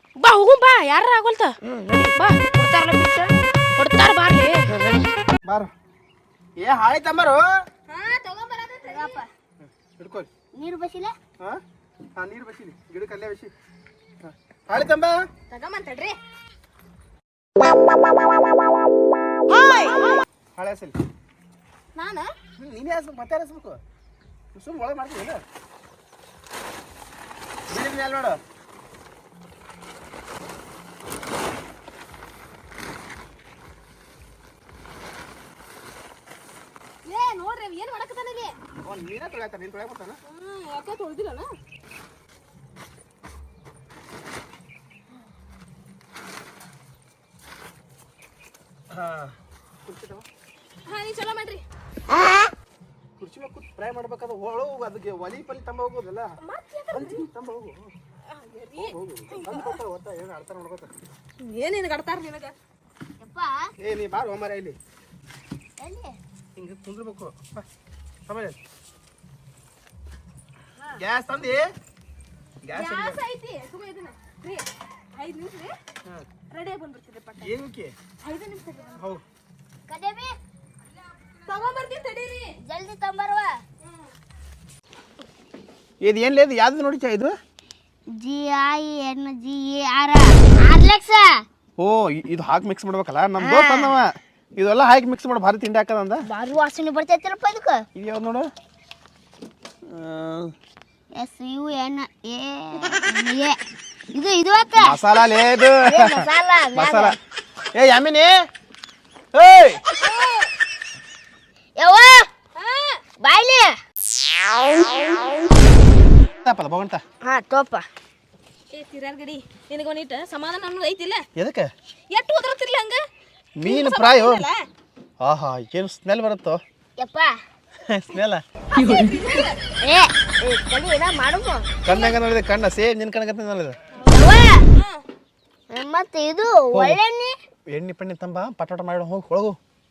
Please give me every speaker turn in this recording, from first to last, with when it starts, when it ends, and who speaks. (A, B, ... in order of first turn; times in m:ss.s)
0:00.2-0:01.5 A
0:01.6-0:03.3 B
0:03.8-0:04.6 A
0:04.7-0:05.1 B
0:05.4-0:05.7 C
0:06.6-0:07.4 C
0:07.9-0:09.2 D
0:08.8-0:09.2 E
0:09.6-0:10.3 C
0:10.6-0:11.2 E
0:12.2-0:13.5 C
0:14.2-0:15.3 C
0:15.5-0:16.2 D
0:19.5-0:20.2 D
0:20.6-0:20.9 C
0:21.9-0:22.3 D
0:22.6-0:23.8 C
0:24.5-0:25.4 C
0:27.7-0:28.4 C
0:37.0-0:38.5 D
0:38.8-0:40.2 C
0:40.2-0:41.5 D
0:48.9-0:50.2 C
0:50.8-0:51.6 D
0:53.2-0:56.3 C
0:56.4-0:57.2 D
0:56.9-0:57.9 C
0:58.3-0:59.8 D
0:58.8-1:00.9 C
1:01.4-1:02.5 D
1:03.2-1:03.6 E
1:03.8-1:04.8 C
1:05.8-1:06.2 E
1:06.6-1:07.6 C
1:08.3-1:08.6 C
1:11.0-1:11.7 C
1:12.6-1:13.2 C
1:12.7-1:15.7 D
1:16.5-1:17.5 D
1:17.4-1:17.9 C
1:18.2-1:19.0 D
1:19.9-1:20.3 E
1:21.4-1:22.6 D
1:22.6-1:23.6 E
1:26.0-1:27.3 C
1:28.2-1:31.3 E
1:31.8-1:36.2 C
1:33.4-1:34.0 E
1:36.2-1:37.8 E
1:38.0-1:38.5 C
1:39.9-1:40.5 C
1:41.2-1:43.6 E
1:44.1-1:45.0 E
1:44.8-1:46.2 C
1:45.8-1:47.2 E
1:46.7-1:47.2 C
1:47.7-1:48.4 C
1:49.3-1:49.8 C
1:50.0-1:50.5 D
1:51.8-1:52.3 E
1:52.6-1:53.0 D
1:53.2-1:53.7 E
1:56.4-1:57.0 C
1:57.2-1:57.8 E
1:58.7-2:01.2 D
2:01.4-2:01.7 C
2:02.1-2:03.0 D
2:03.6-2:04.4 C
2:03.6-2:04.6 D
2:05.2-2:06.6 C
2:07.0-2:07.3 E
2:07.8-2:08.4 C
2:08.7-2:09.6 D
2:09.8-2:11.8 E
2:11.8-2:13.8 C
2:11.9-2:12.1 D
2:13.9-2:15.0 D
2:14.1-2:14.6 E
2:15.7-2:17.4 E
2:17.7-2:19.6 C